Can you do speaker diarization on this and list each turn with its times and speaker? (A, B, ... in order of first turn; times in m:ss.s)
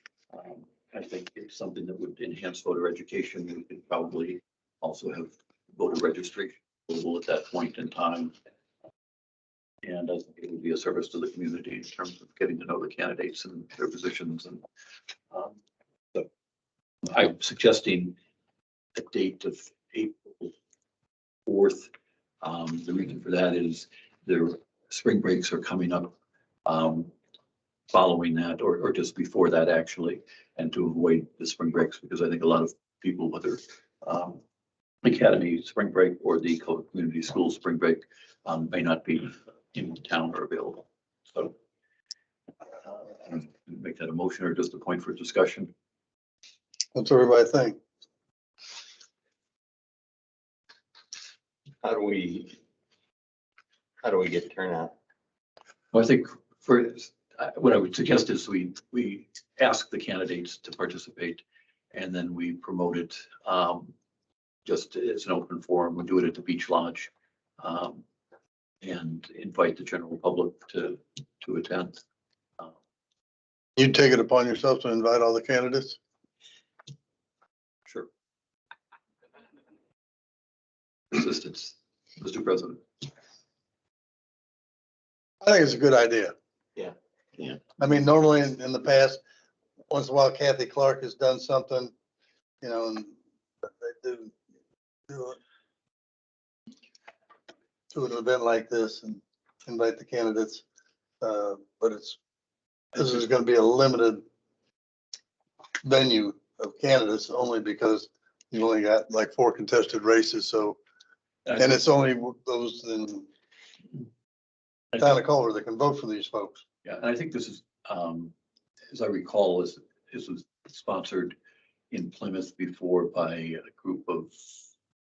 0:00.3-0:08.3 A
0:09.8-0:14.6 A
0:15.3-0:15.6 A
0:17.0-0:18.2 A
0:19.0-0:20.5 A
0:21.5-0:21.9 A
0:22.4-0:26.1 A
0:26.6-0:27.1 A
0:27.9-0:34.4 A
0:35.0-0:41.6 A
0:42.8-0:45.7 A
0:47.0-0:47.8 B
0:51.8-0:52.6 C
0:54.0-0:55.0 C
0:55.9-1:04.0 A
1:04.6-1:08.0 A
1:08.8-1:12.0 A
1:13.8-1:16.0 B
1:21.1-1:22.8 A
1:25.4-1:26.3 B
1:26.8-1:27.6 C
1:27.8-1:29.2 B
1:29.9-1:31.9 B
1:32.6-1:34.3 B
1:35.1-1:35.4 B
1:37.9-1:40.6 B
1:41.2-1:42.2 B
1:43.0-1:44.2 B
1:45.8-1:50.8 B
1:51.4-1:51.8 A
1:51.6-1:53.3 B
1:54.9-1:55.2 A
1:55.0-1:56.6 B
1:56.8-1:58.3 A
1:58.9-2:01.4 A
2:01.9-2:04.7 A